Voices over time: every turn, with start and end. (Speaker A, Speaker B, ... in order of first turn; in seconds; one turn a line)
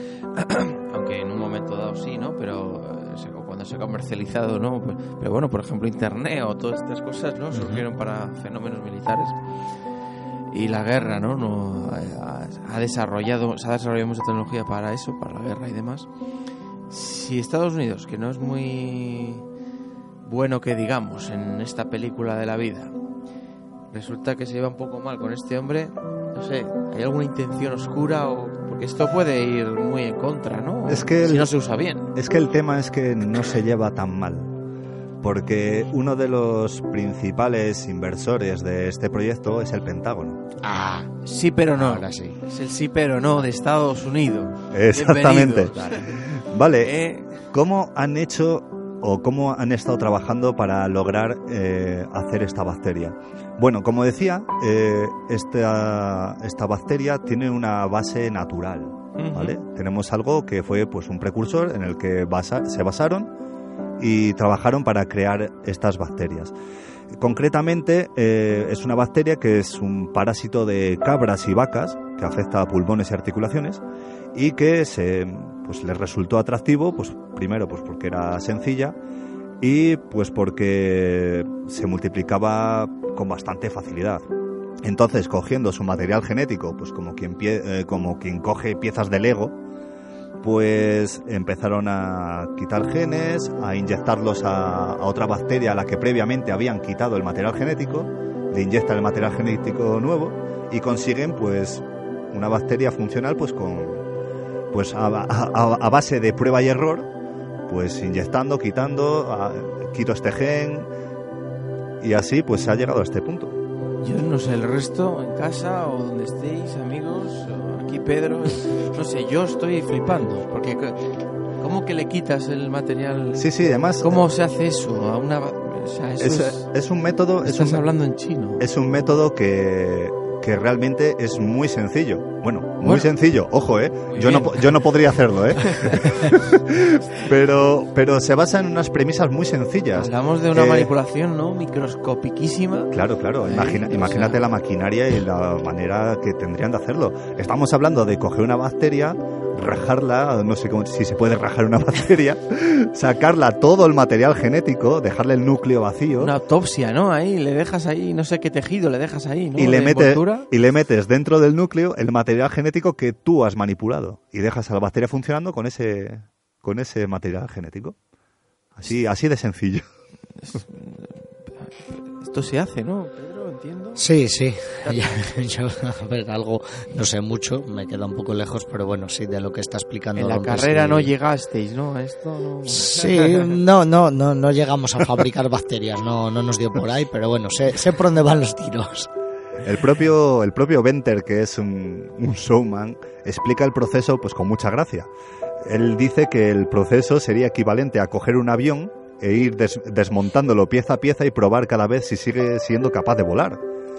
Speaker A: 0.3-9.4
Speaker B: 7.5-7.8
Speaker A: 10.5-16.1
Speaker A: 16.9-19.4
Speaker A: 20.3-22.9
Speaker A: 23.9-32.1
Speaker C: 30.9-31.5
Speaker C: 32.1-34.5
Speaker C: 35.2-40.4
Speaker B: 40.6-41.2
Speaker A: 41.2-46.2
Speaker B: 41.8-42.4
Speaker C: 44.7-47.0
Speaker A: 46.8-47.4
Speaker C: 47.5-63.3
Speaker A: 59.2-59.6
Speaker C: 64.0-66.5
Speaker C: 67.2-73.8
Speaker C: 74.3-79.0
Speaker C: 79.6-84.2
Speaker C: 84.8-89.6
Speaker C: 90.4-104.0
Speaker C: 104.7-107.1
Speaker C: 107.7-110.9
Speaker C: 112.0-113.6
Speaker A: 114.0-126.7
Speaker C: 123.3-124.1
Speaker C: 126.2-127.9
Speaker A: 127.4-128.7
Speaker C: 128.6-140.9
Speaker A: 132.8-133.1
Speaker A: 134.1-134.8
Speaker A: 135.6-136.4
Speaker A: 139.9-142.9
Speaker C: 142.9-156.3
Speaker A: 143.4-144.4
Speaker A: 156.2-160.5
Speaker C: 159.6-168.0
Speaker C: 168.8-169.8
Speaker A: 170.4-174.1
Speaker B: 174.0-181.1
Speaker A: 174.8-175.2
Speaker A: 180.2-183.6
Speaker B: 182.7-189.1
Speaker C: 189.6-195.1
Speaker C: 195.6-203.6